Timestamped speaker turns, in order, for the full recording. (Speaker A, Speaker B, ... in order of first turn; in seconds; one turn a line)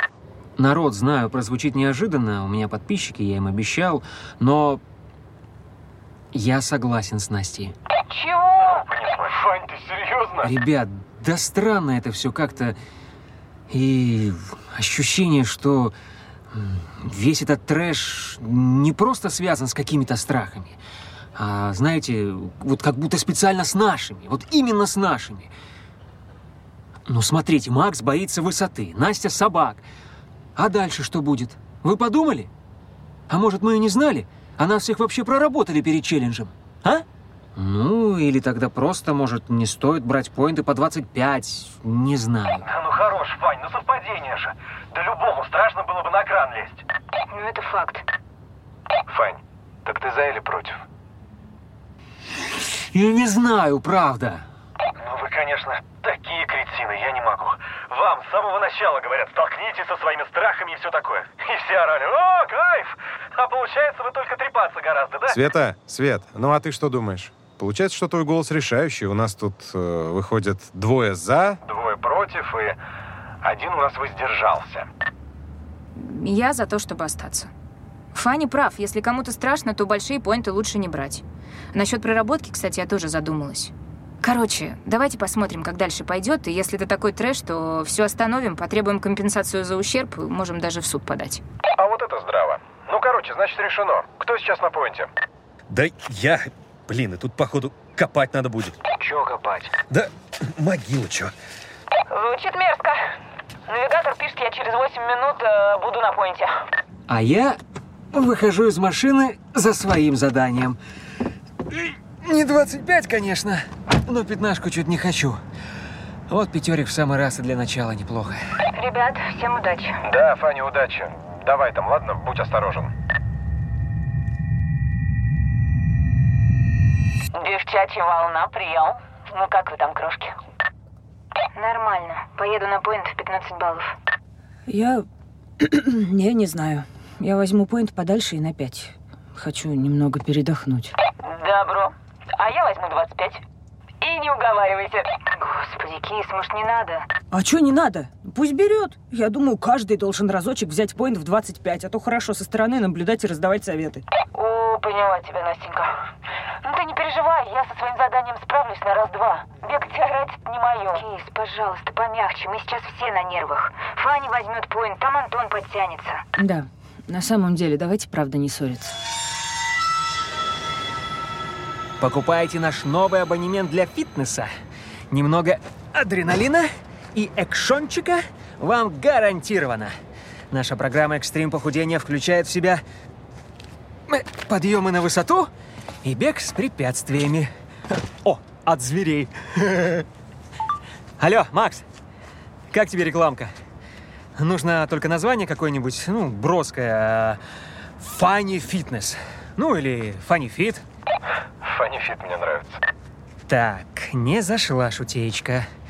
Speaker A: 0.6-4.8
Speaker A: 6.3-7.7
Speaker B: 8.1-8.9
Speaker C: 8.6-10.5
Speaker A: 10.4-12.8
Speaker A: 13.7-15.9
Speaker A: 16.5-20.8
Speaker A: 21.4-25.5
Speaker A: 27.1-29.8
Speaker A: 30.6-32.5
Speaker A: 33.3-37.0
Speaker A: 37.5-42.7
Speaker C: 42.6-46.8
Speaker D: 47.3-48.0
Speaker C: 49.1-50.8
Speaker A: 52.9-54.4
Speaker C: 55.0-65.4
Speaker E: 65.3-71.6
Speaker C: 71.6-72.8
Speaker C: 73.4-74.9
Speaker D: 75.9-77.5
Speaker D: 78.1-81.2
Speaker D: 81.7-91.4
Speaker C: 91.8-95.1
Speaker E: 95.7-98.7
Speaker C: 99.1-99.6
Speaker E: 99.9-101.3
Speaker B: 102.1-103.0
Speaker B: 103.7-106.6
Speaker A: 107.1-107.6
Speaker A: 108.1-110.8
Speaker A: 111.7-115.4
Speaker A: 116.3-118.4
Speaker D: 118.7-120.0
Speaker C: 120.2-120.9
Speaker C: 121.5-122.8
Speaker B: 127.3-130.3
Speaker D: 131.5-133.9
Speaker F: 134.7-135.0
Speaker F: 135.6-140.9
Speaker B: 141.2-143.4
Speaker B: 144.0-145.1
Speaker D: 145.4-147.1
Speaker F: 147.3-154.0
Speaker B: 154.3-156.0
Speaker B: 156.6-161.0
Speaker D: 160.9-166.2
Speaker F: 166.4-169.0
Speaker A: 172.0-174.5
Speaker A: 175.1-179.9
Speaker A: 180.5-182.8
Speaker A: 184.1-185.5
Speaker A: 186.0-187.5
Speaker A: 188.2-190.1
Speaker A: 191.2-191.8
Speaker A: 192.7-193.5
Speaker A: 194.4-197.4
Speaker A: 198.0-200.8
Speaker C: 201.7-202.6
Speaker A: 203.5-205.7